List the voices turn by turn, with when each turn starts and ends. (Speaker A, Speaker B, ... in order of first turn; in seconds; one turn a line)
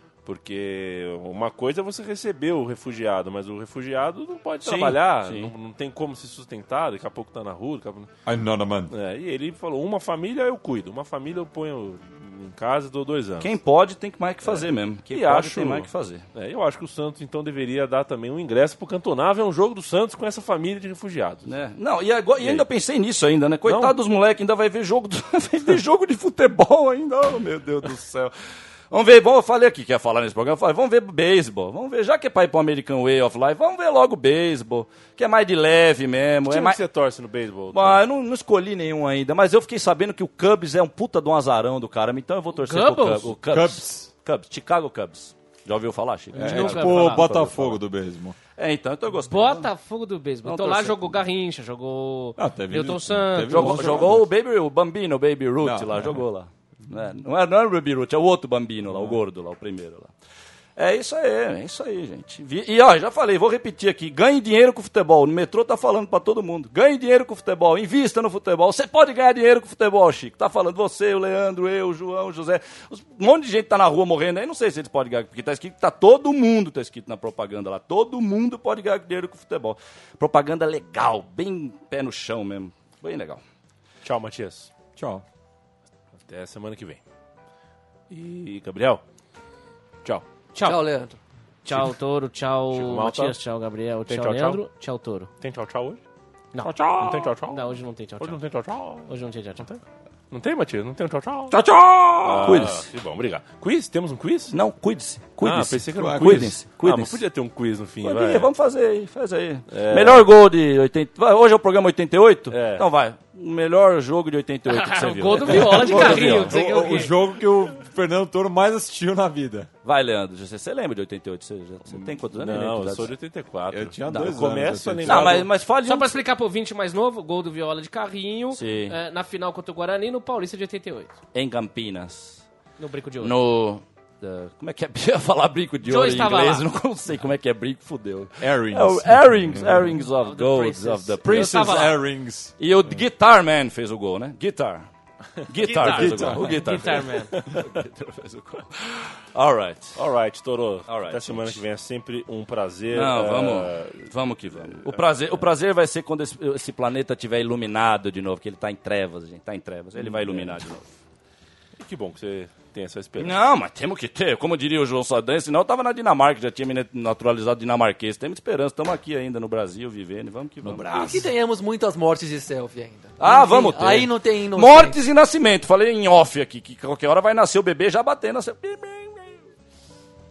Speaker A: 0.2-8.1
Speaker B: 4.6-5.5
Speaker C: 8.2-8.9
Speaker A: 8.9-13.5
Speaker B: 13.4-16.2
Speaker A: 14.4-21.5
Speaker B: 21.5-28.3
Speaker A: 22.4-22.6
Speaker A: 23.7-23.9
Speaker B: 28.9-36.8
Speaker A: 36.5-38.0
Speaker B: 37.7-47.8
Speaker D: 42.5-43.3
Speaker C: 43.4-44.1
Speaker D: 46.3-47.3
Speaker C: 46.3-48.4
Speaker B: 48.6-49.7
Speaker D: 49.3-54.1
Speaker B: 50.4-51.2
Speaker C: 52.4-54.3
Speaker B: 53.5-60.1
Speaker C: 55.6-56.2
Speaker C: 58.9-59.2
Speaker B: 60.8-83.4
Speaker A: 84.0-84.7
Speaker C: 85.0-85.2
Speaker A: 86.2-87.0
Speaker A: 88.1-89.0
Speaker D: 90.5-90.8
Speaker E: 90.6-91.2
Speaker D: 91.7-95.3
Speaker A: 92.7-93.4
Speaker A: 94.1-94.6
Speaker A: 95.4-96.0
Speaker C: 96.6-97.3
Speaker A: 96.9-101.6
Speaker D: 97.5-98.4
Speaker D: 99.1-99.7
Speaker C: 101.5-102.7
Speaker A: 102.2-104.5
Speaker B: 102.4-102.8
Speaker B: 104.5-107.2
Speaker A: 105.4-108.5
Speaker C: 106.0-106.5
Speaker B: 108.0-116.6
Speaker A: 109.7-110.3
Speaker A: 112.5-112.9
Speaker D: 114.7-117.1
Speaker C: 115.5-119.7
Speaker A: 115.9-116.3
Speaker B: 119.8-123.1
Speaker A: 121.9-125.5
Speaker C: 123.7-125.5
Speaker B: 124.0-124.4
Speaker B: 125.0-126.2
Speaker D: 125.8-131.2
Speaker B: 128.5-128.9
Speaker B: 131.3-132.4
Speaker D: 132.8-133.3
Speaker B: 133.2-142.0
Speaker D: 135.8-136.7
Speaker C: 138.4-140.0
Speaker D: 140.2-142.0
Speaker C: 141.3-142.6
Speaker B: 142.6-144.9
Speaker B: 145.5-150.0
Speaker D: 145.6-147.3
Speaker C: 145.8-146.8
Speaker A: 150.0-155.5
Speaker B: 150.9-151.6
Speaker B: 152.9-160.9
Speaker A: 160.0-160.7
Speaker A: 161.8-163.4
Speaker B: 163.2-170.9
Speaker E: 170.7-175.0
Speaker A: 170.7-171.2
Speaker B: 173.2-179.4